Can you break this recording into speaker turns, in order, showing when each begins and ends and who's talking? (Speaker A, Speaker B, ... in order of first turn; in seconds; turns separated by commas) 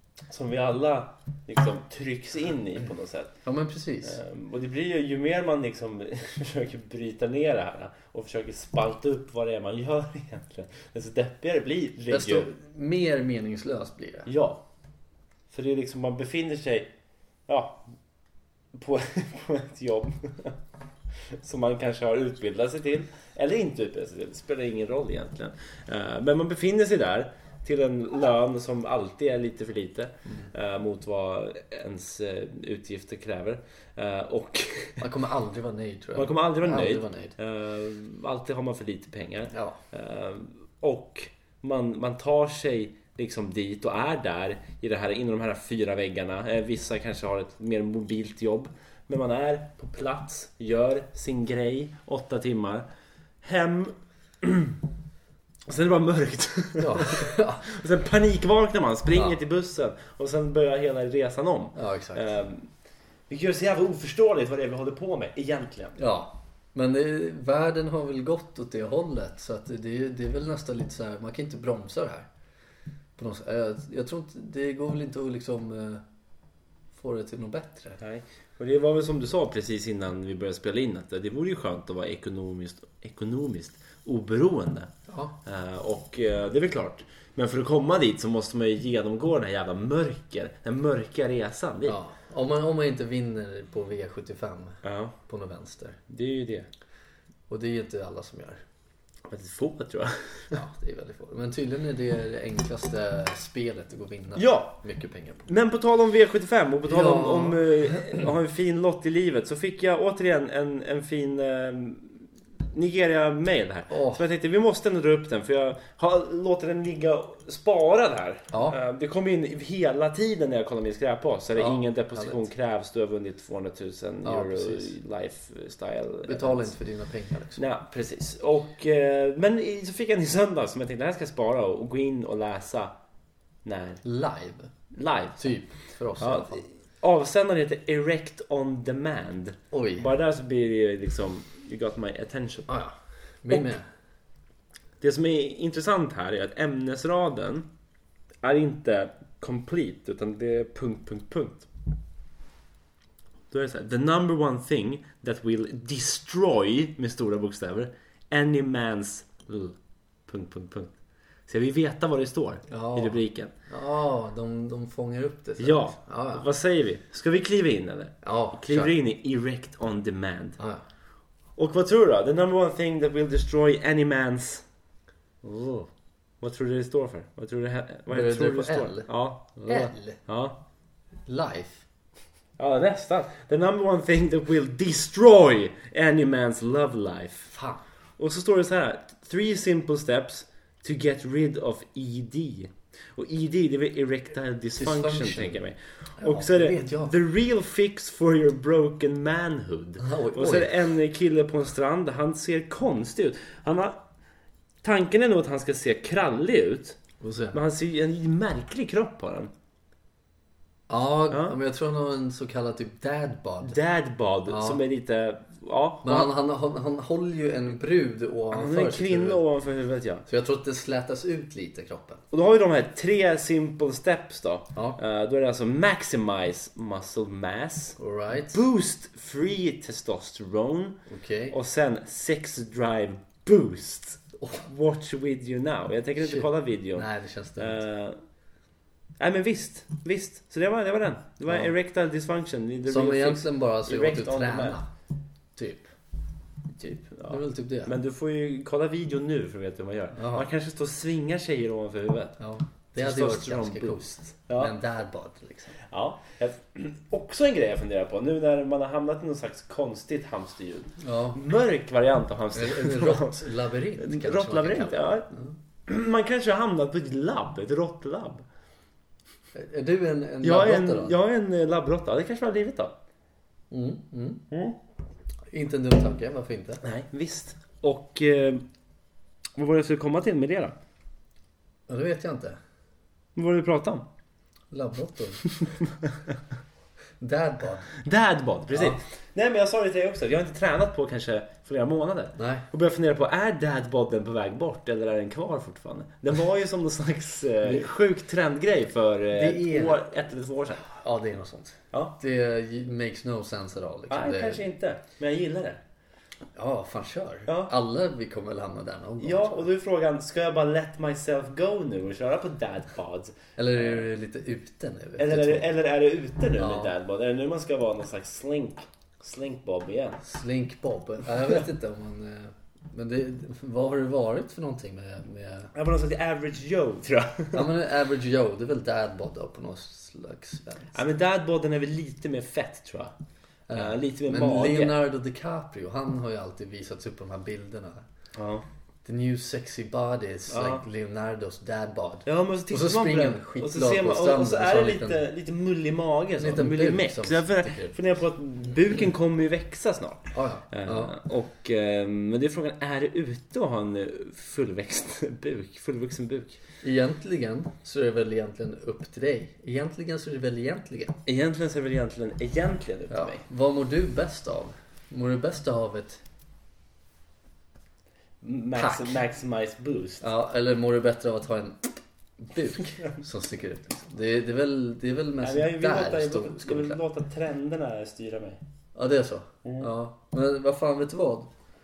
Speaker A: 0.3-3.4, Speaker B: 3.4-4.2, Speaker A: 4.0-12.5, Speaker B: 12.1-14.3, Speaker A: 14.3-14.6, Speaker A: 15.5-16.9, Speaker A: 17.5-18.0, Speaker A: 18.7-20.6, Speaker A: 21.3-35.0, Speaker B: 35.0-37.4, Speaker A: 36.1-52.9, Speaker B: 39.5-39.8, Speaker A: 53.4-54.8, Speaker A: 55.7-62.8, Speaker B: 56.8-57.6, Speaker B: 61.8-62.2, Speaker A: 63.3-66.0, Speaker B: 66.0-72.3, Speaker B: 73.2-76.0, Speaker B: 76.9-78.0, Speaker A: 78.0-84.9, Speaker B: 85.1-85.3, Speaker A: 85.4-92.0, Speaker B: 91.9-96.0, Speaker A: 94.8-95.2, Speaker A: 96.1-96.7, Speaker B: 97.5-98.6, Speaker A: 99.3-100.6, Speaker B: 100.5-105.5, Speaker A: 104.3-104.8, Speaker A: 105.5-126.7, Speaker B: 106.9-108.1, Speaker B: 113.9-114.2, Speaker B: 118.5-118.8, Speaker B: 121.6-122.4, Speaker B: 124.2-124.9, Speaker B: 126.3-127.6, Speaker A: 127.6-132.9, Speaker A: 133.6-134.0, Speaker B: 134.0-134.8, Speaker A: 134.9-135.6, Speaker B: 135.4-136.6, Speaker A: 136.2-142.7, Speaker B: 139.7-140.1, Speaker B: 142.7-143.9, Speaker A: 145.0-147.7, Speaker A: 148.4-151.7, Speaker A: 153.5-163.5, Speaker B: 162.7-166.5, Speaker A: 165.6-170.6, Speaker B: 168.2-168.9, Speaker B: 170.6-170.8, Speaker A: 171.5-174.7, Speaker A: 175.4-180.6, Speaker B: 178.1-180.2, Speaker B: 181.3-181.8, Speaker A: 182.6-187.5, Speaker B: 187.5-187.8, Speaker A: 188.2-204.1, Speaker B: 194.8-195.6, Speaker B: 196.2-197.1, Speaker B: 200.0-200.8, Speaker A: 204.8-207.0, Speaker B: 207.2-207.6, Speaker A: 207.5-209.5, Speaker B: 210.9-213.8, Speaker A: 211.3-211.6, Speaker A: 213.6-216.3, Speaker B: 214.5-214.8, Speaker B: 216.0-219.4, Speaker A: 218.5-220.2, Speaker B: 220.3-222.2, Speaker A: 222.3-238.3, Speaker B: 228.0-228.6, Speaker B: 231.1-231.6, Speaker B: 234.4-234.7, Speaker B: 236.2-237.8, Speaker A: 239.2-244.8, Speaker B: 241.5-241.7, Speaker B: 242.9-244.9, Speaker B: 245.6-245.9, Speaker A: 246.8-252.4, Speaker B: 247.3-247.9, Speaker B: 250.2-250.5, Speaker B: 252.4-255.8, Speaker A: 253.0-254.7, Speaker A: 255.8-265.3, Speaker B: 261.0-261.4, Speaker B: 262.6-265.6, Speaker A: 265.9-268.5, Speaker B: 269.5-271.1, Speaker A: 270.4-273.0, Speaker B: 273.7-274.5, Speaker A: 274.5-274.8, Speaker B: 275.5-276.8, Speaker A: 276.8-278.7, Speaker A: 279.6-280.8, Speaker B: 281.9-282.6, Speaker A: 283.4-284.1, Speaker B: 284.7-285.5, Speaker B: 287.2-287.9, Speaker A: 288.0-300.9, Speaker B: 288.7-289.0, Speaker B: 292.4-292.6, Speaker B: 297.6-297.9, Speaker B: 299.3-300.0, Speaker B: 300.9-304.6, Speaker A: 304.1-305.8, Speaker B: 306.6-309.7, Speaker A: 307.5-307.7, Speaker A: 309.2-314.1, Speaker B: 313.6-315.7, Speaker A: 315.2-320.2, Speaker B: 316.6-316.9, Speaker B: 320.2-325.7, Speaker A: 325.8-327.7, Speaker B: 327.5-331.0, Speaker A: 330.9-333.1, Speaker B: 333.7-338.1, Speaker A: 333.7-335.0, Speaker A: 338.4-338.6, Speaker B: 339.0-345.2, Speaker A: 340.5-340.8, Speaker A: 342.3-356.6, Speaker B: 346.4-348.0, Speaker B: 350.3-351.2, Speaker B: 356.8-361.2, Speaker A: 361.3-363.4, Speaker B: 363.1-366.2, Speaker A: 368.4-370.3, Speaker B: 368.8-369.2, Speaker B: 370.2-377.0, Speaker A: 375.4-378.6, Speaker B: 378.9-381.5, Speaker A: 379.6-379.9